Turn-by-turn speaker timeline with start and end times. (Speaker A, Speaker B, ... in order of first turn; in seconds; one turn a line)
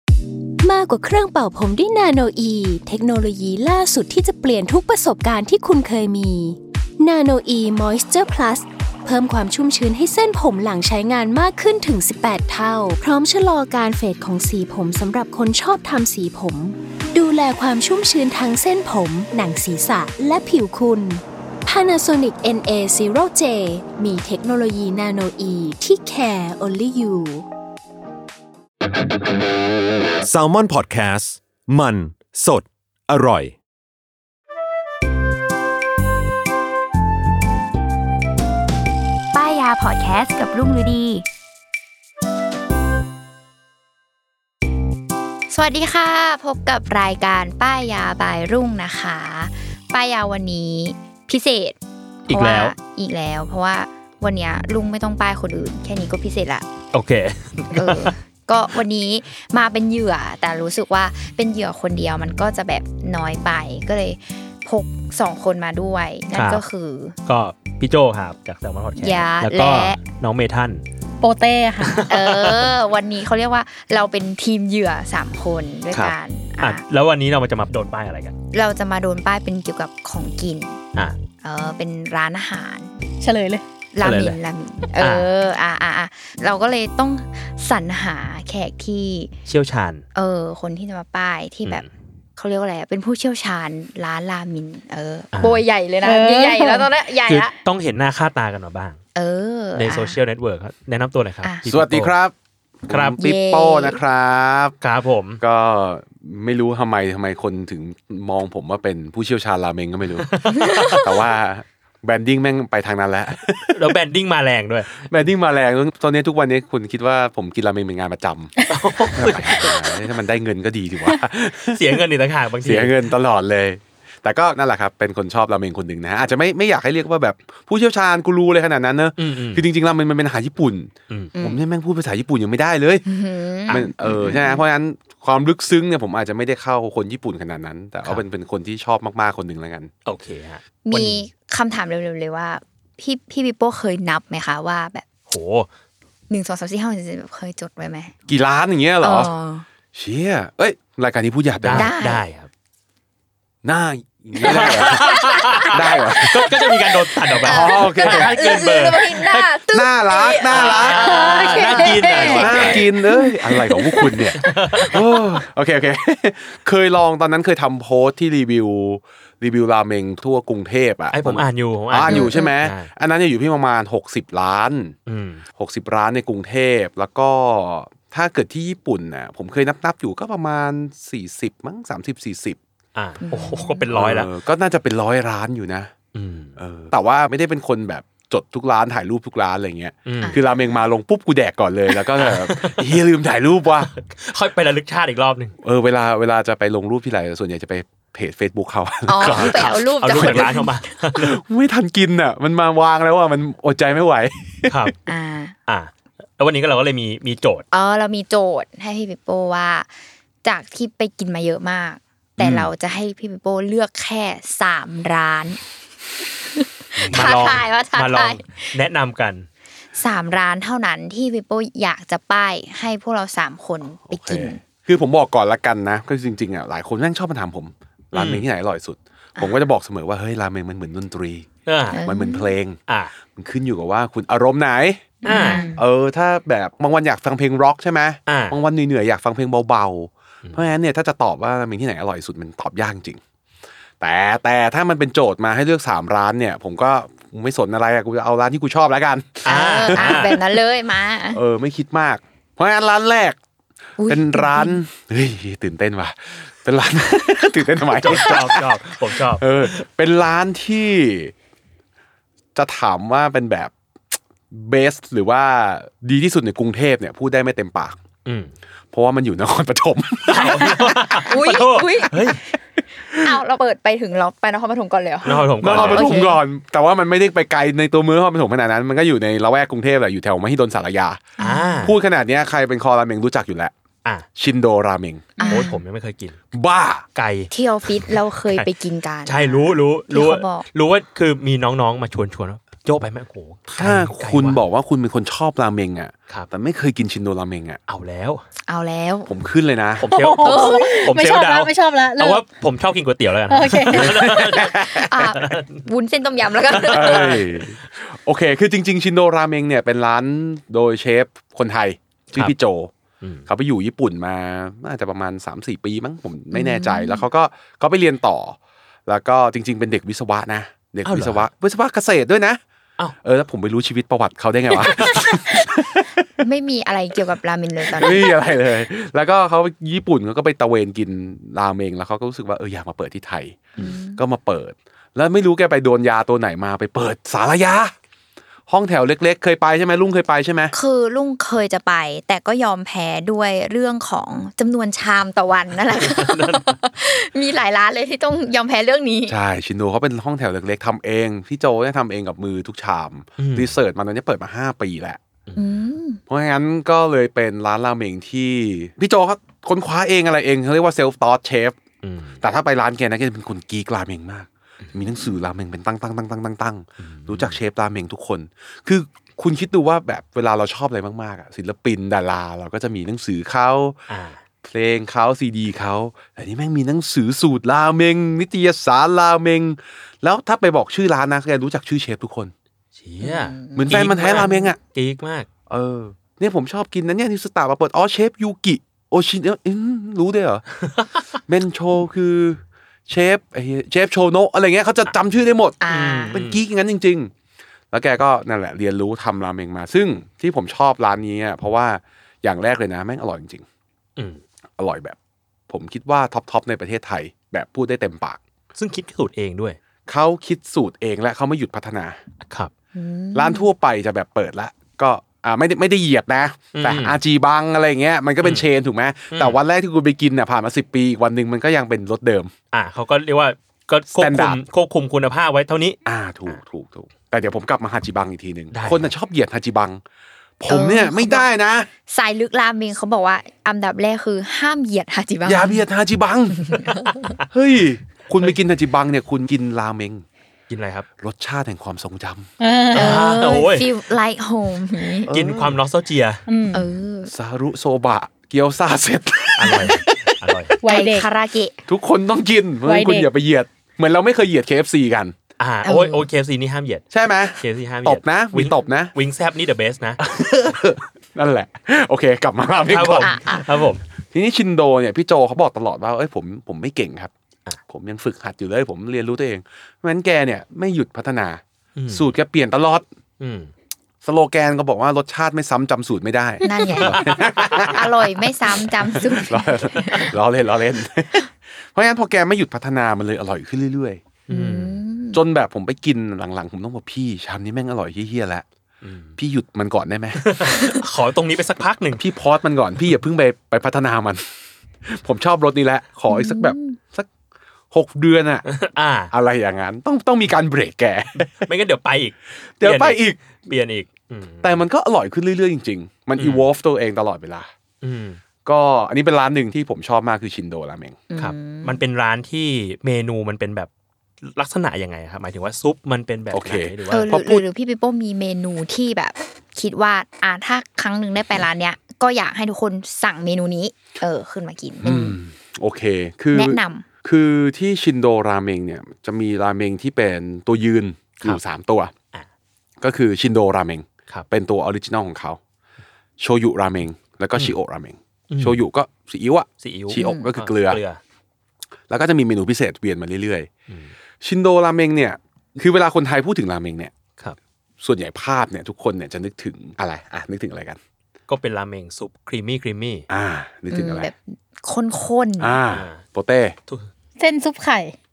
Speaker A: 0.6-27.4
Speaker B: 30.2-33.6
Speaker C: 39.3-41.2
Speaker C: 45.5-51.8
Speaker D: 52.3-52.7
Speaker C: 52.3-56.6
Speaker D: 56.9-58.1
Speaker C: 57.7-67.2
Speaker D: 66.3-66.6
Speaker D: 67.2-70.8
Speaker C: 69.0-70.0
Speaker E: 71.2-72.1
Speaker D: 71.8-72.7
Speaker C: 72.1-76.8
Speaker D: 75.9-78.3
Speaker C: 78.5-80.8
Speaker C: 81.4-82.9
Speaker E: 83.2-83.6
Speaker C: 83.9-89.3
Speaker D: 84.0-84.4
Speaker D: 85.0-85.3
Speaker D: 89.5-90.0
Speaker C: 90.1-91.8
Speaker C: 92.4-97.5
Speaker D: 95.3-95.6
Speaker E: 96.0-96.9
Speaker D: 97.2-99.0
Speaker C: 99.2-100.2
Speaker D: 99.8-102.1
Speaker F: 101.7-104.8
Speaker D: 102.9-103.2
Speaker C: 103.2-104.0
Speaker D: 104.8-105.4
Speaker F: 105.4-114.0
Speaker D: 110.3-111.0
Speaker C: 110.6-111.0
Speaker D: 113.7-115.1
Speaker F: 115.0-118.5
Speaker D: 118.7-120.0
Speaker F: 119.1-122.0
Speaker D: 121.7-123.1
Speaker F: 122.6-133.0
Speaker D: 129.2-129.6
Speaker C: 133.1-134.6
Speaker D: 133.7-133.9
Speaker F: 133.7-139.9
Speaker D: 140.1-141.2
Speaker C: 140.8-145.0
Speaker D: 145.3-145.7
Speaker C: 146.3-148.1
Speaker F: 148.3-149.3
Speaker C: 149.0-149.7
Speaker F: 149.9-151.9
Speaker D: 151.6-152.5
Speaker C: 151.7-152.2
Speaker F: 153.6-156.6
Speaker D: 154.4-159.5
Speaker C: 154.5-156.8
Speaker F: 157.4-158.3
Speaker C: 157.4-164.5
Speaker F: 159.7-161.5
Speaker D: 160.5-162.9
Speaker E: 161.0-162.6
Speaker F: 162.3-174.9
Speaker D: 164.4-165.0
Speaker D: 171.1-172.9
Speaker C: 172.1-172.5
Speaker D: 175.1-175.4
Speaker F: 175.6-182.6
Speaker D: 182.9-184.3
Speaker C: 183.2-183.8
Speaker F: 183.9-185.9
Speaker D: 186.1-186.6
Speaker F: 186.6-193.9
Speaker D: 190.1-190.4
Speaker D: 192.1-193.0
Speaker D: 193.9-195.5
Speaker F: 195.6-200.6
Speaker C: 199.1-200.8
Speaker D: 199.2-201.4
Speaker F: 201.1-204.9
Speaker D: 204.7-205.0
Speaker C: 205.1-205.5
Speaker D: 205.7-207.7
Speaker C: 207.7-209.9
Speaker C: 210.4-215.6
Speaker F: 212.4-212.7
Speaker C: 216.6-218.6
Speaker F: 216.9-217.6
Speaker D: 217.1-219.5
Speaker C: 219.9-224.6
Speaker F: 224.1-231.5
Speaker D: 228.1-228.4
Speaker D: 231.7-232.0
Speaker C: 231.9-232.5
Speaker F: 232.0-243.2
Speaker D: 232.9-233.1
Speaker C: 235.2-235.8
Speaker D: 235.2-235.6
Speaker E: 235.2-235.7
Speaker D: 238.3-238.6
Speaker F: 244.0-250.4
Speaker D: 249.4-250.4
Speaker C: 249.4-251.4
Speaker F: 251.3-253.4
Speaker C: 254.0-254.8
Speaker F: 254.1-261.3
Speaker D: 257.9-259.8
Speaker F: 262.5-263.7
Speaker F: 264.5-268.0
Speaker D: 268.2-268.5
Speaker F: 268.9-271.2
Speaker D: 270.3-272.4
Speaker C: 270.4-272.4
Speaker F: 273.1-273.4
Speaker C: 273.2-276.4
Speaker D: 275.2-276.2
Speaker F: 275.6-281.3
Speaker C: 281.4-281.9
Speaker D: 281.4-281.9
Speaker F: 281.8-283.7
Speaker F: 284.4-285.6
Speaker C: 285.4-285.8
Speaker D: 285.4-286.4
Speaker F: 286.5-287.1
Speaker D: 287.1-287.5
Speaker C: 287.5-290.6
Speaker D: 289.2-294.6
Speaker F: 293.7-297.8
Speaker D: 297.9-298.4
Speaker C: 298.7-299.3
Speaker F: 299.3-300.1
Speaker D: 300.0-305.8
Speaker E: 300.1-302.4
Speaker C: 300.4-301.1
Speaker E: 303.5-304.3
Speaker F: 303.9-305.1
Speaker C: 304.6-307.4
Speaker D: 306.7-307.6
Speaker F: 306.8-312.9
Speaker D: 313.2-313.5
Speaker F: 313.5-322.6
Speaker C: 316.5-317.2
Speaker D: 321.1-321.4
Speaker F: 323.2-326.3
Speaker D: 324.8-325.3
Speaker C: 326.4-328.3
Speaker F: 327.9-337.9
Speaker C: 333.8-334.2
Speaker F: 338.7-340.7
Speaker C: 340.7-349.3
Speaker D: 346.0-346.6
Speaker F: 349.3-355.2
Speaker D: 353.4-353.7
Speaker C: 355.6-356.2
Speaker F: 356.3-361.8
Speaker D: 362.0-362.4
Speaker F: 362.4-374.0
Speaker D: 367.0-367.6
Speaker D: 374.1-374.4
Speaker F: 374.6-382.5
Speaker D: 382.9-385.5
Speaker C: 383.2-384.7
Speaker F: 383.8-384.8
Speaker F: 385.7-390.6
Speaker D: 390.8-391.2
Speaker F: 391.5-397.3
Speaker C: 395.8-396.4
Speaker D: 395.9-396.6
Speaker F: 397.9-403.6
Speaker D: 404.2-404.4
Speaker F: 404.8-405.2
Speaker F: 405.7-408.4
Speaker D: 408.8-409.8
Speaker F: 410.1-412.2
Speaker C: 412.9-413.7
Speaker F: 413.3-422.5
Speaker D: 416.7-417.2
Speaker D: 419.3-419.6
Speaker D: 422.7-426.6
Speaker F: 424.1-424.6
Speaker F: 426.0-430.0
Speaker D: 428.7-429.1
Speaker F: 430.6-431.9
Speaker C: 430.7-431.4
Speaker C: 432.1-435.8
Speaker F: 435.4-436.9
Speaker C: 436.6-437.0
Speaker D: 437.1-437.4
Speaker F: 437.5-440.2
Speaker D: 440.7-441.1
Speaker F: 441.2-442.5
Speaker E: 442.6-443.2
Speaker C: 442.9-445.3
Speaker D: 442.9-443.9
Speaker F: 445.3-445.8
Speaker D: 445.3-446.4
Speaker E: 446.5-446.8
Speaker C: 446.7-447.3
Speaker F: 447.3-450.5
Speaker D: 449.6-450.8
Speaker E: 450.8-451.3
Speaker C: 450.9-451.8
Speaker F: 451.9-455.4
Speaker E: 452.8-453.3
Speaker D: 455.6-457.1
Speaker C: 455.8-456.3
Speaker F: 457.1-459.1
Speaker D: 457.6-460.3
Speaker F: 460.2-463.4
Speaker D: 462.9-464.0
Speaker C: 463.2-463.7
Speaker F: 464.2-467.3
Speaker F: 467.9-473.0
Speaker D: 471.9-472.3
Speaker D: 473.4-473.7
Speaker F: 474.2-478.2
Speaker C: 476.6-480.3
Speaker D: 476.7-477.9
Speaker F: 479.1-484.2
Speaker D: 484.5-485.0
Speaker C: 484.5-485.4
Speaker F: 485.3-488.6
Speaker D: 489.0-489.4
Speaker F: 489.4-490.7
Speaker D: 490.4-492.2
Speaker F: 492.2-494.4
Speaker F: 495.0-497.3
Speaker C: 496.3-497.0
Speaker F: 497.9-498.6
Speaker D: 498.7-499.3
Speaker F: 499.3-501.6
Speaker D: 501.4-504.8
Speaker F: 502.8-503.4
Speaker F: 504.6-507.7
Speaker D: 506.4-506.7
Speaker D: 508.0-508.4
Speaker F: 508.6-511.2
Speaker C: 511.3-512.0
Speaker D: 511.4-513.9
Speaker D: 514.4-517.3
Speaker F: 516.5-517.6
Speaker C: 517.1-525.4
Speaker F: 525.0-532.1
Speaker C: 526.5-527.0
Speaker F: 533.0-535.6
Speaker F: 536.4-541.0
Speaker D: 538.5-538.8
Speaker D: 539.8-541.2
Speaker C: 540.2-540.5
Speaker F: 542.1-543.7
Speaker D: 543.9-544.1
Speaker F: 544.4-547.1
Speaker F: 548.0-551.0
Speaker D: 551.5-553.3
Speaker F: 553.3-554.3
Speaker C: 553.9-555.8
Speaker F: 555.6-556.8
Speaker D: 555.9-556.2
Speaker E: 557.4-558.1